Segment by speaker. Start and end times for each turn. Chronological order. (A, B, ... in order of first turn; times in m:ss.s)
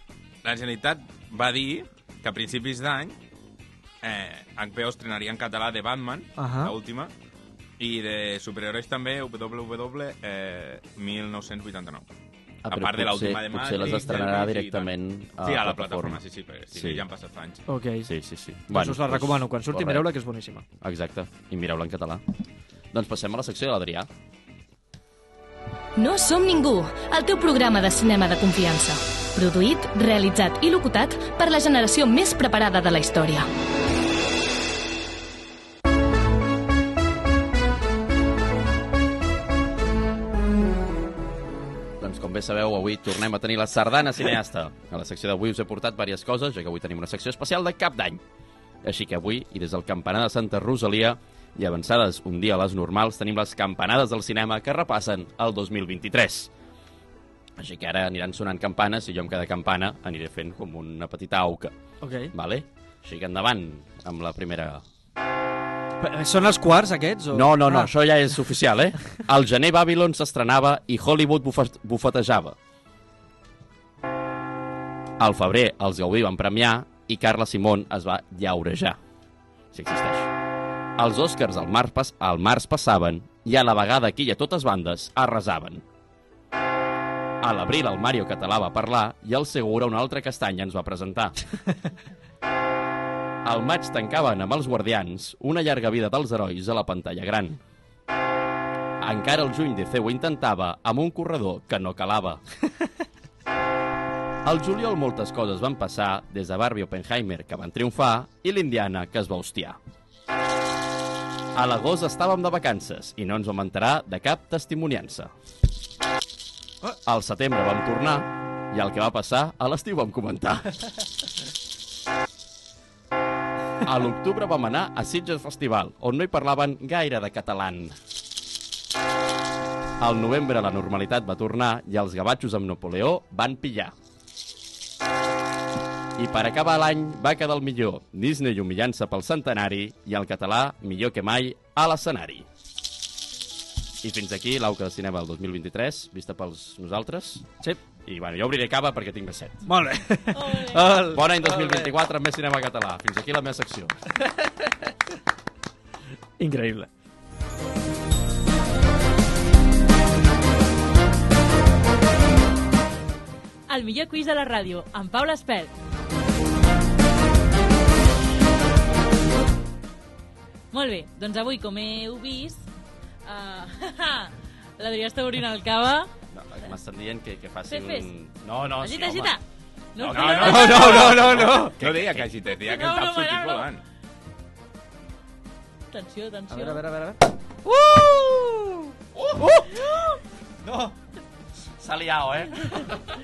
0:00.4-0:03.2 A
0:04.0-0:07.1 A
0:06.4-0:06.8 B
0:07.8-0:12.1 A
0:12.6-0:16.2 C
0:12.7-0:17.6 A
0:16.7-0:17.0 C
0:17.7-0:18.1 B
0:18.0-0:20.1 C
0:18.7-0:20.6 B
0:20.8-0:22.2 C
0:22.9-0:24.1 C
0:26.0-0:33.5 D
0:42.0-0:48.2 C
0:48.8-0:56.5 C
0:57.6-1:01.7 C
1:02.0-1:02.3 B
1:02.3-1:04.8 C
1:06.0-1:07.9 B
1:07.3-1:12.6 C
1:15.2-1:19.0 C
1:19.7-1:20.3 C
1:21.0-1:25.8 C
1:27.4-1:31.4 C
1:33.4-1:37.6 C
1:39.0-1:42.4 C
1:44.4-1:49.8 C
1:51.5-1:55.3 C
1:57.0-2:00.8 C
2:03.8-2:08.0 C
2:10.0-2:13.9 C
2:16.2-2:22.5 C
2:24.0-2:27.5 C
2:28.0-2:29.7 C
2:29.6-2:31.9 B
2:30.3-2:31.1 E
2:31.0-2:34.0 C
2:34.4-2:34.7 B
2:36.4-2:36.9 B
2:43.7-2:45.7 E
2:50.7-2:52.6 E
2:53.2-2:56.1 E
2:56.3-2:59.4 C
2:57.7-2:58.1 E
2:58.8-2:59.4 E
2:59.9-3:01.1 E
3:00.0-3:03.8 A
3:00.1-3:02.3 C
3:00.4-3:01.8 B
3:02.6-3:03.7 E
3:05.9-3:06.8 E
3:06.5-3:07.3 B
3:07.8-3:08.7 E
3:09.4-3:09.9 B
3:10.6-3:10.9 B
3:11.8-3:12.9 C